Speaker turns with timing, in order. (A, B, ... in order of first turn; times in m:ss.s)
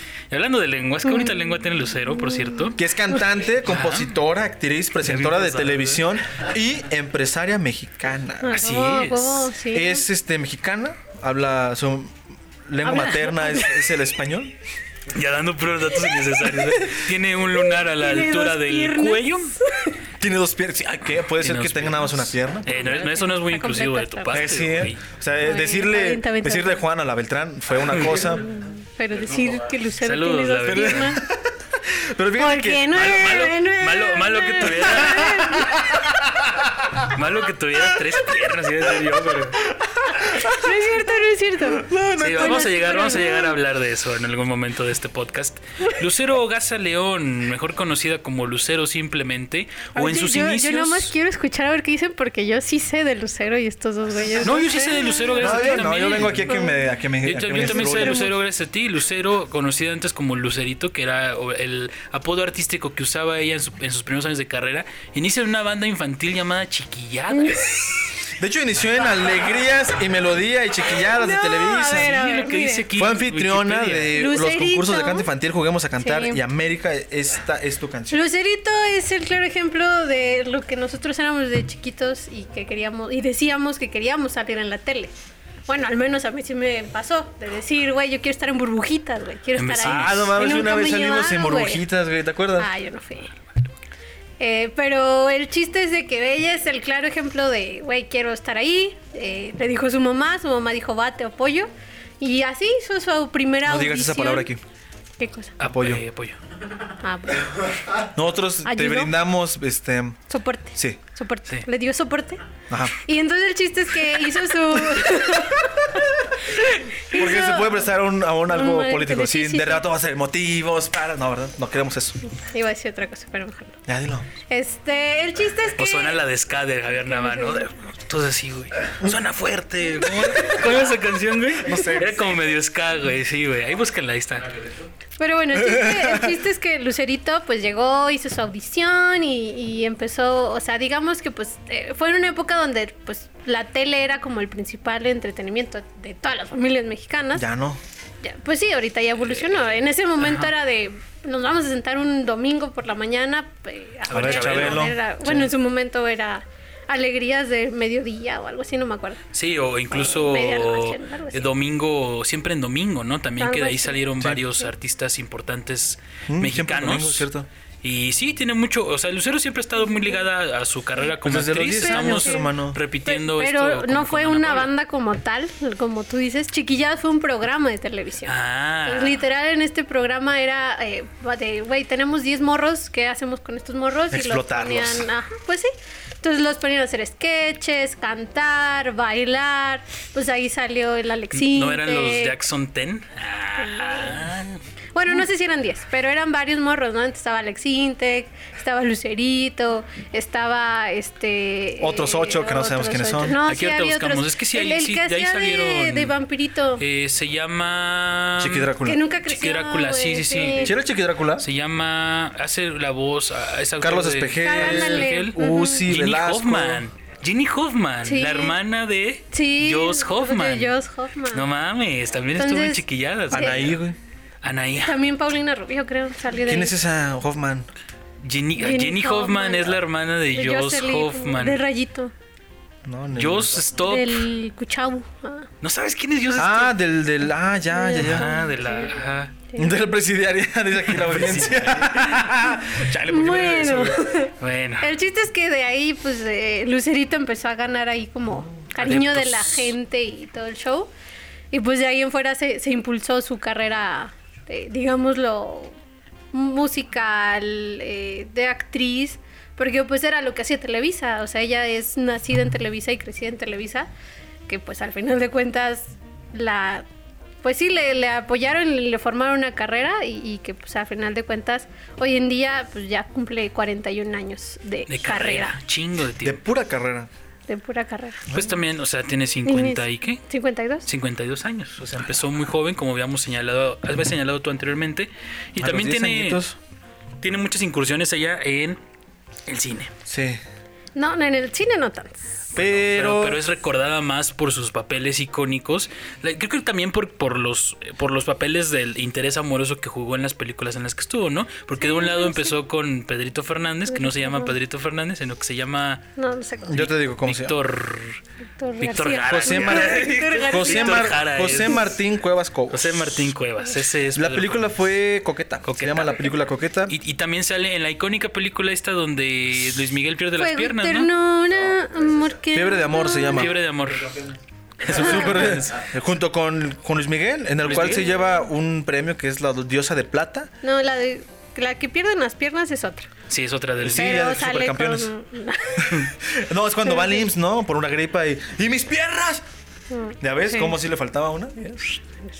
0:00.3-0:02.8 A
0:01.0-0:01.5 B
0:02.1-0:02.7 B
0:02.8-0:08.6 C
0:03.6-0:04.2 A
0:05.0-0:06.0 A
0:08.4-0:10.1 B
0:08.5-0:09.5 A
0:09.7-0:12.1 C
0:12.7-0:14.5 C
0:12.8-0:13.8 B
0:15.1-0:19.6 A
0:16.0-0:16.2 B
0:16.6-0:17.0 C
0:17.8-0:20.0 B
0:20.2-0:22.8 C
0:21.4-0:25.0 A
0:22.7-0:24.4 B
0:24.3-0:28.5 C
0:25.4-0:26.8 B
0:27.9-0:28.2 A
0:28.3-0:31.2 B
0:30.0-0:31.2 A
0:30.6-0:32.9 C
0:32.4-0:35.8 B
0:32.9-0:35.6 A
0:35.2-0:36.3 C
0:37.0-0:39.6 A
0:39.7-0:40.8 C
0:40.4-0:43.6 B
0:41.7-0:42.8 C
0:42.2-0:51.1 A
0:50.0-0:56.8 B
0:54.4-0:56.6 A
0:55.4-0:58.3 C
0:57.2-1:08.0 A
0:57.5-0:58.3 B
1:07.3-1:08.1 B
1:08.4-1:12.2 C
1:11.0-1:12.9 B
1:11.9-1:14.2 A
1:13.0-1:18.2 C
1:14.1-1:15.3 B
1:16.0-1:16.4 B
1:18.1-1:25.1 B
1:25.7-1:31.8 B
1:29.6-1:30.4 A
1:29.8-1:32.7 C
1:32.6-1:33.3 B
1:34.4-1:41.7 B
1:42.2-1:44.5 B
1:43.6-1:44.6 C
1:45.2-1:45.6 B
1:45.6-1:46.4 A
1:45.7-1:46.0 C
1:47.0-1:47.8 B
1:48.1-1:50.2 C
1:48.6-1:49.1 B
1:50.3-1:57.9 B
1:52.7-1:53.0 C
1:57.1-2:02.2 C
1:58.5-1:59.8 B
2:02.3-2:03.8 B
2:03.9-2:04.3 C
2:04.5-2:06.2 B
2:05.8-2:14.7 A
2:07.1-2:07.7 B
2:11.6-2:12.2 C
2:15.2-2:27.4 B
2:15.6-2:16.3 C
2:27.4-2:27.8 C
2:28.2-2:39.2 B
2:30.2-2:30.5 A
2:34.1-2:34.9 A
2:34.1-2:35.5 C
2:39.3-2:47.3 A
2:39.9-2:41.5 B
2:43.4-2:44.1 B
2:46.3-2:47.5 C
2:47.8-2:54.7 A
2:51.2-2:52.8 C
2:51.8-2:52.5 B
2:53.0-3:12.4 B
2:58.3-2:59.2 A
3:04.1-3:05.1 C
3:11.3-3:14.6 A
3:13.6-3:14.2 B
3:15.0-3:26.8 B
3:21.8-3:23.4 C
3:23.4-3:26.2 A
3:26.8-3:30.8 A
3:28.4-3:29.0 C
3:28.8-3:30.7 B
3:30.6-3:31.5 C
3:31.4-3:40.8 A
3:33.8-3:36.8 C
3:34.4-3:35.9 B
3:38.0-3:38.6 B
3:39.3-3:41.5 B
3:41.3-3:43.8 A
3:42.4-3:43.7 B
3:43.3-3:44.0 C
3:44.4-3:45.0 A
3:44.8-3:46.8 B
3:46.5-3:47.7 C
3:48.2-3:51.6 A
3:48.6-3:49.8 B
3:50.3-3:52.1 B
3:52.8-3:53.6 C
3:53.2-3:54.3 A
3:53.8-3:55.5 B
3:55.6-3:56.8 A
3:56.4-3:58.4 C
3:57.7-3:59.0 B
3:58.0-3:59.4 A
3:59.6-4:04.2 C
4:00.9-4:02.2 A
4:03.1-4:10.9 B
4:04.4-4:04.9 A
4:08.8-4:09.7 A
4:11.5-4:15.8 B
4:16.3-4:23.9 B
4:24.5-4:26.9 B
4:27.4-4:35.6 B
4:34.9-4:36.4 A
4:36.2-4:37.1 C
4:37.5-4:38.2 B
4:38.3-4:38.6 C
4:38.3-4:40.2 A
4:39.5-4:40.9 B
4:40.8-4:46.4 A
4:45.6-4:46.6 C
4:47.2-4:48.8 A
4:49.5-4:49.9 A
4:50.1-4:50.4 C
4:51.0-4:52.4 B
4:52.5-5:06.0 A
4:52.6-4:53.4 C
5:01.8-5:02.6 B
5:03.9-5:04.5 B
5:06.2-5:06.9 B
5:06.7-5:07.6 C
5:06.8-5:08.2 A
5:08.6-5:11.9 B
5:08.8-5:11.9 A
5:09.3-5:13.2 C
5:12.7-5:14.7 A
5:14.1-5:17.0 C
5:15.6-5:16.3 A
5:16.9-5:21.1 A
5:20.4-5:23.5 B
5:22.5-5:23.6 C
5:23.3-5:24.2 A
5:24.8-5:25.8 A
5:24.8-5:30.5 C
5:27.6-5:28.1 A
5:30.6-5:33.1 B
5:33.3-5:34.2 A
5:33.8-5:35.1 C
5:33.9-5:36.1 B
5:35.8-5:39.4 C
5:36.8-5:37.3 B
5:39.9-5:40.8 B
5:40.2-5:42.0 C